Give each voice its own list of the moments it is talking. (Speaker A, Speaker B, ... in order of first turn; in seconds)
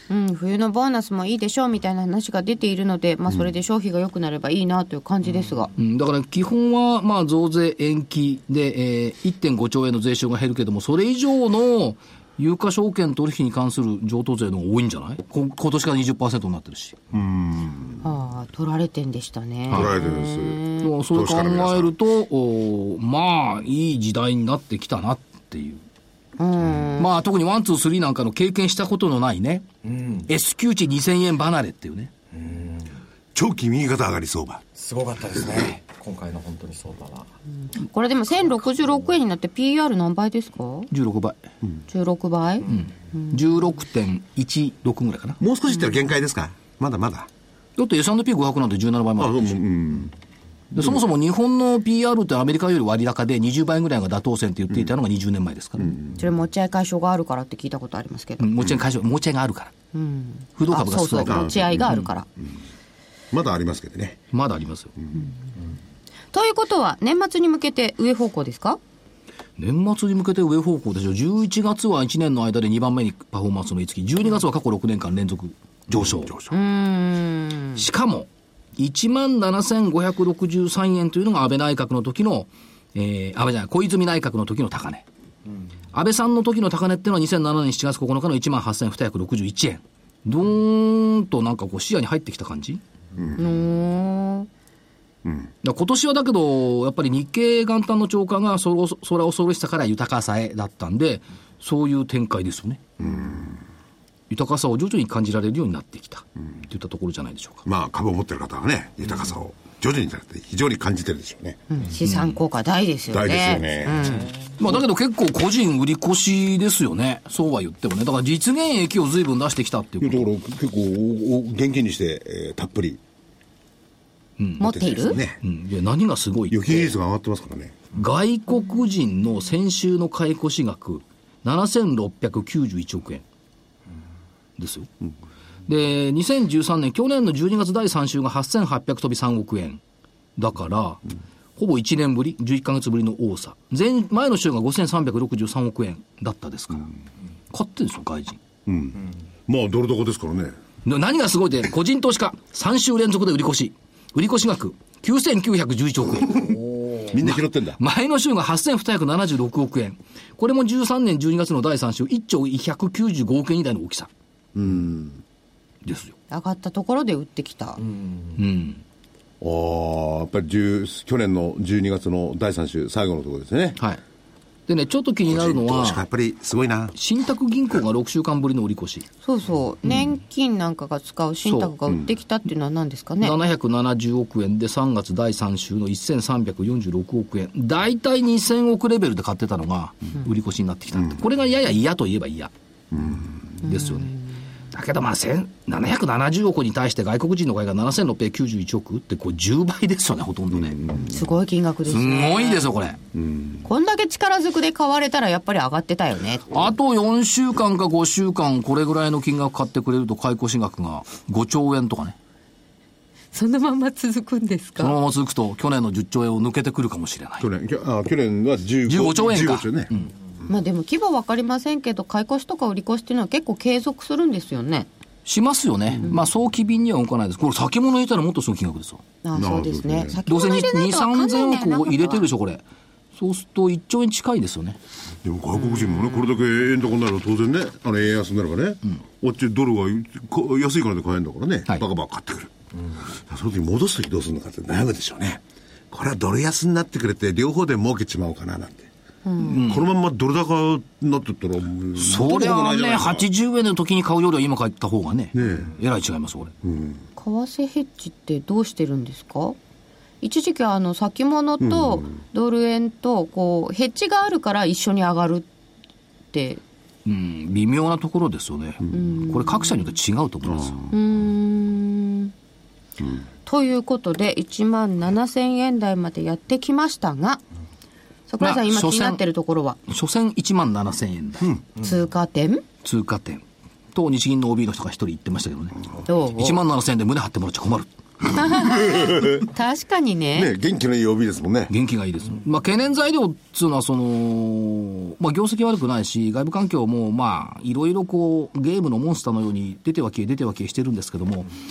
Speaker A: 0.1-5.7, 18.0-20.9, 26.4-27.1, 37.8-40.9, 41.9-43.4, 56.1-58.6, 59.9-62.3, 66.3-68.8, 76.5-77.8, 93.4-94.5, 111.7-114.3, 124.6-125.2, 166.3-167.8, 179.2-183.4, 193.6-194.2, 201.0-202.7, 203.7-206.7, 213.3-215.0, 220.5-224.9, 229.2-232.3, 235.7-236.1, 249.2-249.7, 257.2-259.6, 260.2-265.5, 266.3-266.6, 268.9-270.0, 270.9-272.3, 273.4-277.4, 278.3-279.8, 281.8-282.6, 286.1-286.6, 288.3-290.5
Speaker B: 5.8-17.0, 19.7-20.0, 20.8-25.8, 27.0-29.7, 30.3-32.1, 40.9-41.4, 42.6-45.4, 47.8-49.7, 50.7-56.0, 58.4-59.8, 60.6-62.1, 64.3-64.9, 69.6-76.3, 77.8-85.0, 85.9-92.8, 95.6-102.8, 104.3-107.7, 112.0-112.4, 114.6-120.3, 124.4-124.7, 125.4-126.9, 127.9-133.2, 134.6-134.9, 135.7-139.8, 140.4-141.0, 141.6-146.9, 147.5-148.4, 150.8-156.6, 157.2-164.1, 165.8-166.1, 168.4-168.8, 174.7-176.1, 176.9-179.1, 181.4-181.8, 183.2-192.5, 193.6-194.1, 194.7-200.8, 201.9-203.0, 206.5-212.2, 214.8-217.5, 218.9-220.1, 225.3-229.0, 230.3-232.6, 233.2-234.8, 249.4-249.9, 251.9-256.5, 267.1-270.8, 278.4-279.2, 279.9-281.5, 282.8-285.8, 286.3-287.9, 291.7-301.5
Speaker C: 17.1-18.1, 19.7-21.9, 33.4-34.6, 45.4-47.3, 49.2-50.1, 50.8-51.0, 55.8-56.2, 61.3-62.0, 63.3-64.2, 75.9-76.6, 93.2-93.4, 95.2-95.5, 103.0-103.6, 107.7-111.6, 113.1-114.8, 120.0-123.0, 124.6-125.4, 126.5-127.9, 148.7-150.6, 157.1-157.8, 164.6-165.2, 169.4-173.8, 175.3-176.9, 192.9-193.4, 200.5-201.2, 203.2-203.6, 217.4-219.9, 229.3-230.2, 235.2-242.5, 243.1-248.9, 249.5-253.3, 255.3-255.7, 256.6-257.0, 261.6-262.1, 268.8-269.1, 270.4-271.0, 288.5-289.4, 290.3-291.7
Speaker D: 29.8-30.3, 32.3-33.0, 34.8-37.3, 114.1-114.3, 156.7-157.1, 167.8-168.4, 281.8-282.0